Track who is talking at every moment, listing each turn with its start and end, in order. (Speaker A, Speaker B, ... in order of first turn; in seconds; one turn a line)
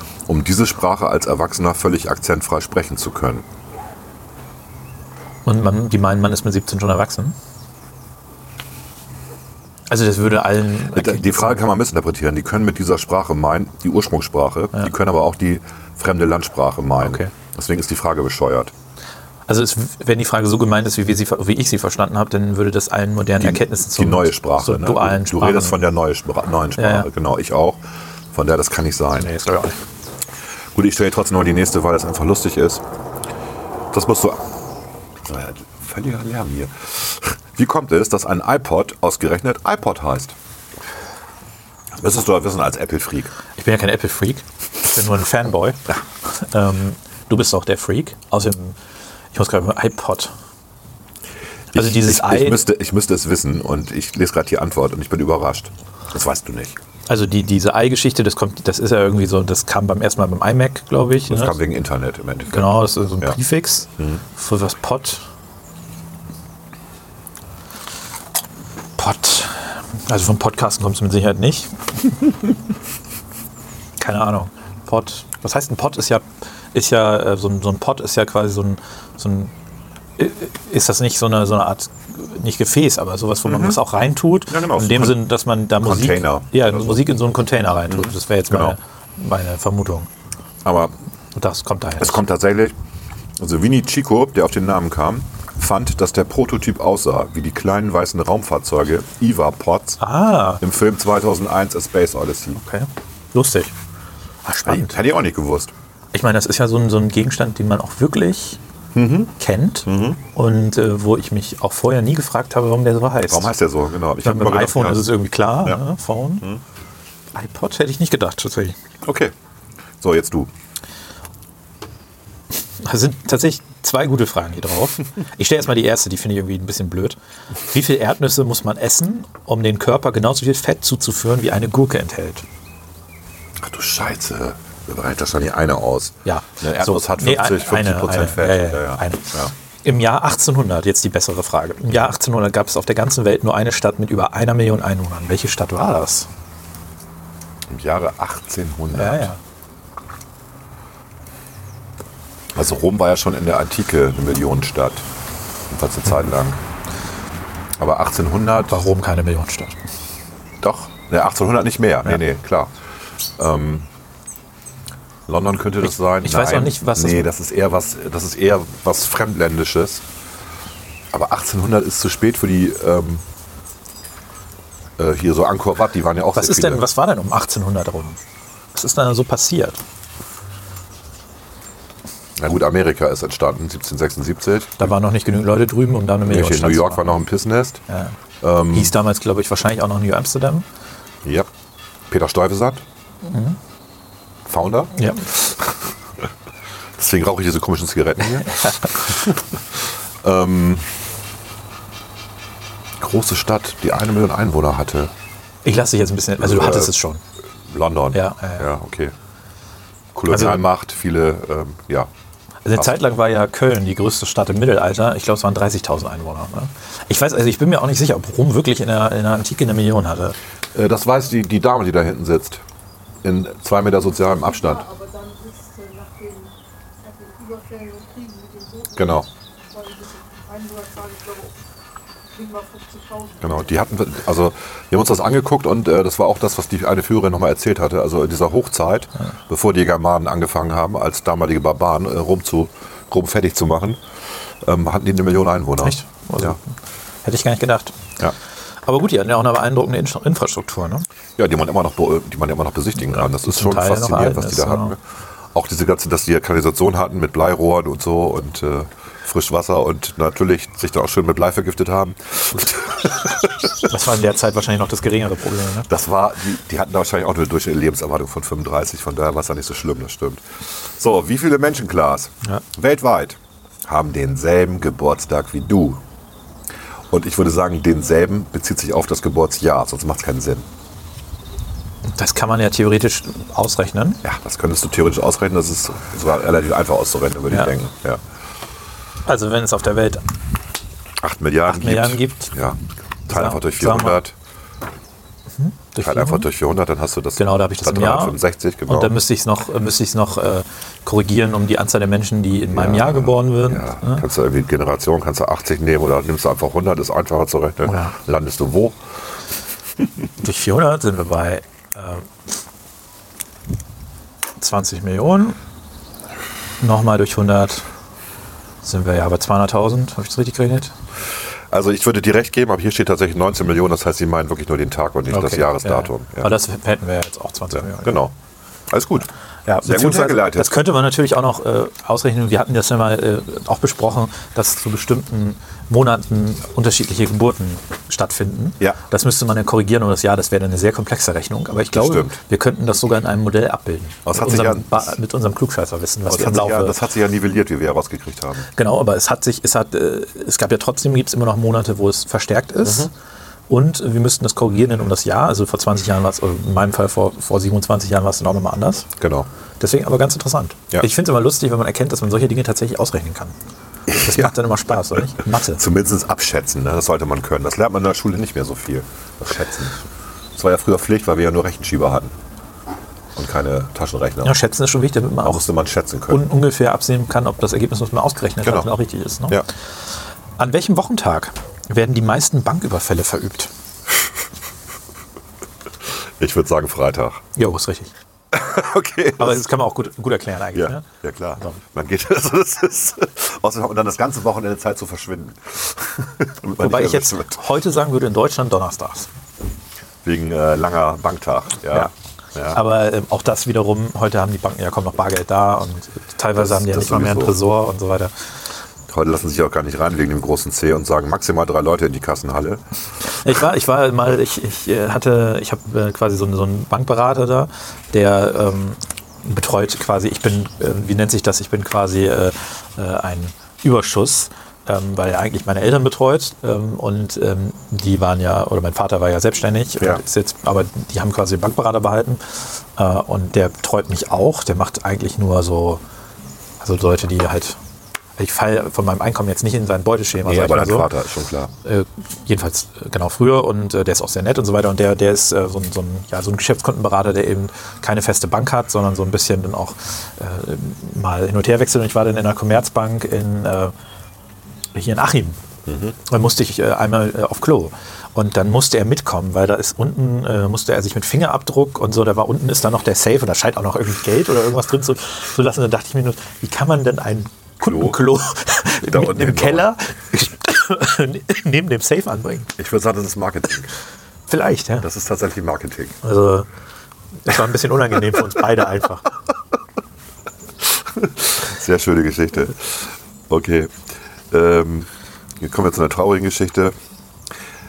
Speaker A: 0.3-3.5
Speaker B: 5.5-7.4
Speaker B: 9.9-11.6
Speaker A: 10.9-18.7
Speaker B: 17.0-17.3
Speaker B: 19.5-25.8
Speaker A: 23.4-27.8
Speaker B: 26.8-27.1
Speaker A: 28.3-29.3
Speaker B: 29.2-29.8
Speaker A: 30.8-32.8
Speaker A: 33.9-34.4
Speaker A: 35.2-40.4
Speaker A: 42.0-43.3
Speaker B: 43.6-48.8
Speaker B: 49.3-50.3
Speaker A: 51.7-56.8
Speaker B: 51.7-52.6
Speaker B: 57.1-61.6
Speaker A: 61.3-63.4
Speaker B: 62.5-65.2
Speaker B: 69.0-72.2
Speaker B: 74.0-79.5
Speaker B: 80.2-90.1
Speaker A: 83.5-83.8
Speaker A: 84.5-85.2
Speaker A: 85.8-87.0
Speaker A: 87.9-88.8
Speaker A: 90.6-90.9
Speaker B: 91.3-92.2
Speaker A: 92.0-92.8
Speaker A: 93.4-100.0
Speaker B: 100.0-100.6
Speaker A: 100.6-102.6
Speaker B: 102.6-103.7
Speaker B: 104.5-105.0
Speaker A: 104.7-105.7
Speaker B: 106.1-108.6
Speaker A: 108.9-109.3
Speaker B: 109.4-113.5
Speaker A: 109.9-110.2
Speaker A: 113.2-115.8
Speaker B: 114.2-116.5
Speaker B: 117.3-118.8
Speaker A: 119.0-119.3
Speaker A: 120.0-120.5
Speaker B: 122.8-127.2
Speaker B: 127.7-132.4
Speaker A: 133.6-139.5
Speaker B: 136.3-146.3
Speaker A: 147.7-149.3
Speaker B: 148.9-149.4
Speaker A: 152.5-155.1
Speaker A: 155.7-156.6
Speaker A: 157.8-158.8
Speaker B: 158.7-159.8
Speaker A: 160.6-162.7
Speaker A: 163.4-163.9
Speaker A: 165.3-170.0
Speaker B: 166.2-167.3
Speaker A: 171.1-173.2
Speaker A: 175.0-176.8
Speaker B: 176.3-178.2
Speaker B: 178.7-179.8
Speaker A: 182.4-184.9
Speaker B: 184.8-187.1
Speaker A: 186.3-187.8
Speaker B: 187.9-188.2
Speaker A: 188.4-188.9
Speaker B: 188.7-190.7
Speaker A: 192.1-192.8
Speaker B: 193.2-193.6
Speaker A: 194.5-195.5
Speaker B: 194.9-195.3
Speaker A: 197.0-201.0
Speaker B: 198.5-198.9
Speaker A: 203.0-205.1
Speaker B: 205.7-207.2
Speaker A: 206.4-206.9
Speaker A: 207.7-209.1
Speaker B: 208.1-208.7
Speaker A: 210.1-212.1
Speaker B: 210.3-210.6
Speaker B: 212.7-220.4
Speaker A: 220.7-222.6
Speaker A: 223.2-224.8
Speaker C: 224.3-231.6
Speaker A: 229.0-229.3
Speaker C: 232.3-233.9
Speaker A: 233.4-244.0
Speaker A: 244.6-246.6
Speaker B: 245.8-246.6
Speaker B: 247.2-248.0
Speaker B: 248.9-251.1
Speaker A: 251.4-255.0
Speaker B: 253.0-254.9
Speaker A: 255.5-263.9
Speaker B: 263.9-265.9
Speaker A: 265.9-276.0
Speaker A: 277.1-280.7
Speaker B: 282.1-284.2
Speaker A: 284.2-288.2
Speaker B: 289.3-290.2
Speaker A: 291.2-294.4
Speaker B: 291.7-292.5
Speaker B: 293.3-294.2
Speaker B: 295.6-296.5
Speaker A: 296.0-299.1
Speaker B: 297.4-304.2
Speaker A: 302.7-309.0
Speaker B: 307.8-308.1
Speaker B: 310.4-312.3
Speaker B: 314.6-315.6
Speaker B: 316.8-317.9
Speaker B: 318.8-320.9
Speaker A: 321.7-326.5
Speaker B: 325.3-328.2
Speaker A: 327.7-328.3
Speaker A: 328.9-329.3
Speaker B: 329.7-347.0
Speaker A: 329.8-330.8
Speaker A: 341.9-342.4
Speaker A: 344.2-345.1
Speaker A: 346.3-348.7
Speaker B: 348.8-353.1
Speaker A: 352.8-353.1
Speaker B: 353.7-359.1
Speaker A: 359.2-359.5
Speaker B: 359.8-363.6
Speaker A: 364.1-364.6
Speaker B: 364.1-365.8
Speaker A: 365.1-370.0
Speaker A: 370.6-372.3
Speaker A: 373.4-374.6
Speaker B: 374.4-375.6
Speaker A: 375.4-376.5
Speaker B: 376.3-379.6
Speaker A: 378.6-378.9
Speaker B: 380.6-383.7
Speaker A: 386.4-387.4
Speaker B: 387.6-388.1
Speaker A: 388.5-389.7
Speaker B: 389.4-391.1
Speaker A: 390.7-397.6
Speaker B: 396.8-399.3
Speaker A: 400.2-402.8
Speaker B: 402.7-408.3
Speaker A: 406.6-407.6
Speaker A: 409.1-412.8
Speaker B: 413.4-436.0
Speaker B: 436.8-437.8
Speaker B: 438.4-441.1
Speaker A: 440.4-441.7
Speaker B: 441.9-453.9
Speaker B: 454.9-455.6
Speaker A: 455.9-456.1
Speaker B: 456.2-472.7
Speaker A: 467.8-468.2
Speaker A: 469.0-469.9
Speaker A: 472.8-473.9
Speaker B: 474.5-475.1
Speaker A: 475.0-476.2
Speaker B: 476.2-476.7
Speaker B: 477.4-479.3
Speaker A: 480.8-483.9
Speaker A: 484.5-485.1
Speaker A: 485.6-486.9